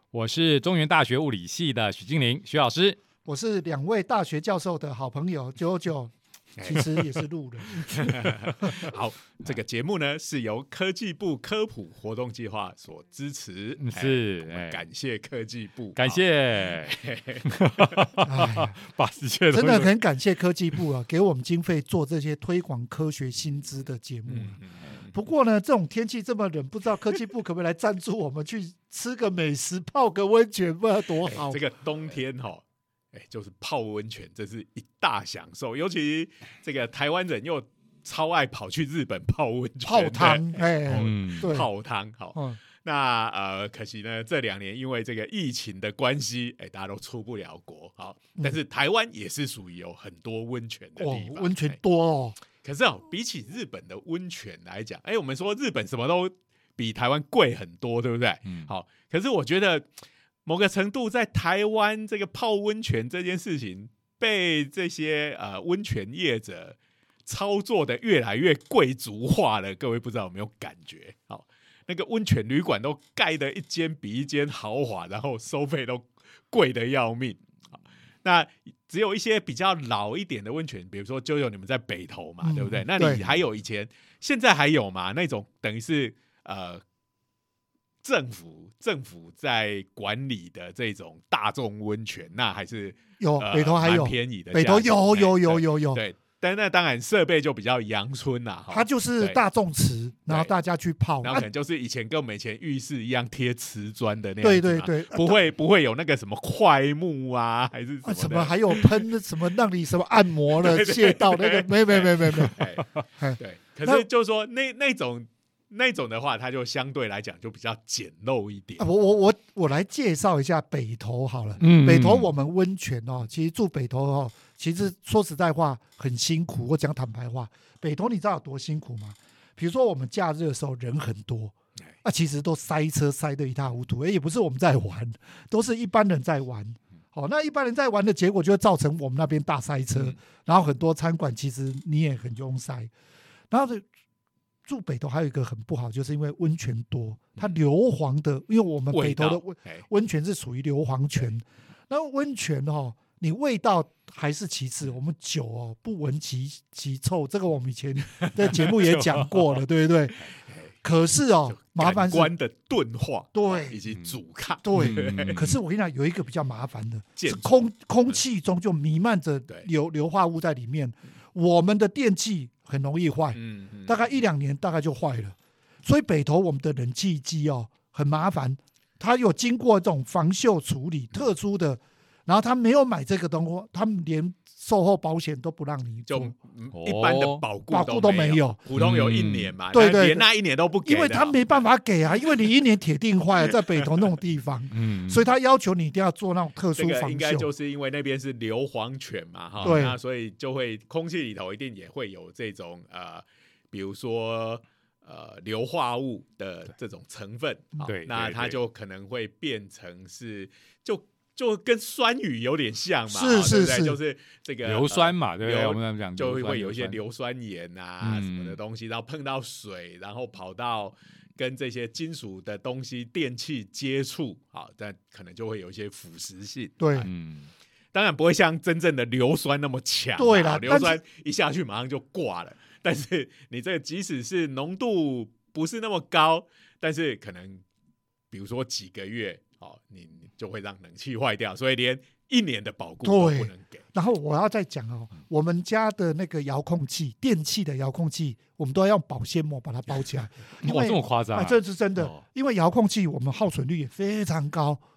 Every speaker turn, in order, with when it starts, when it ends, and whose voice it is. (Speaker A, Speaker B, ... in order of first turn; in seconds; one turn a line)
Speaker A: 0.1-3.0
Speaker B: 3.2-6.1
Speaker C: 6.6-7.0
Speaker B: 6.6-8.7
Speaker C: 7.8-18.1
Speaker A: 8.4-8.7
Speaker A: 13.8-14.8
Speaker A: 15.9-19.9
Speaker B: 18.2-18.8
Speaker B: 19.5-24.6
Speaker C: 24.3-25.1
Speaker B: 25.1-31.6
Speaker C: 31.2-51.8
Speaker B: 39.8-41.7
Speaker A: 40.9-41.5
Speaker B: 51.0-52.4
Speaker C: 52.6-59.9
Speaker A: 58.5-58.7
Speaker C: 60.5-77.4
Speaker C: 78.2-86.8
Speaker B: 82.4-83.2
Speaker C: 88.0-99.4
Speaker B: 93.2-96.0
Speaker B: 98.7-101.5
Speaker C: 100.3-100.5
Speaker C: 101.2-109.1
Speaker B: 104.4-105.4
Speaker B: 108.0-112.6
Speaker C: 110.5-118.9
Speaker B: 113.2-114.0
Speaker B: 118.8-142.9
Speaker A: 121.6-122.3
Speaker B: 143.5-143.8
Speaker B: 144.7-160.3
Speaker C: 148.9-149.8
Speaker C: 158.2-158.7
Speaker A: 159.0-159.2
Speaker B: 160.8-162.3
Speaker C: 161.5-165.4
Speaker B: 163.3-163.8
Speaker B: 164.6-186.3
Speaker A: 164.7-165.6
Speaker C: 167.2-168.2
Speaker C: 173.3-174.0
Speaker C: 186.1-191.5
Speaker A: 186.7-187.4
Speaker B: 187.7-188.6
Speaker A: 188.8-189.5
Speaker B: 189.7-190.2
Speaker B: 190.8-197.5
Speaker C: 193.8-194.1
Speaker A: 194.7-195.2
Speaker C: 196.8-227.1
Speaker B: 199.6-200.0
Speaker A: 207.8-208.6
Speaker B: 213.1-214.0
Speaker A: 214.6-217.0
Speaker A: 218.0-218.6
Speaker B: 226.8-227.1
Speaker A: 227.0-227.5
Speaker C: 227.9-237.6
Speaker B: 230.2-231.0
Speaker C: 238.3-243.8
Speaker B: 243.0-254.8
Speaker A: 250.6-252.2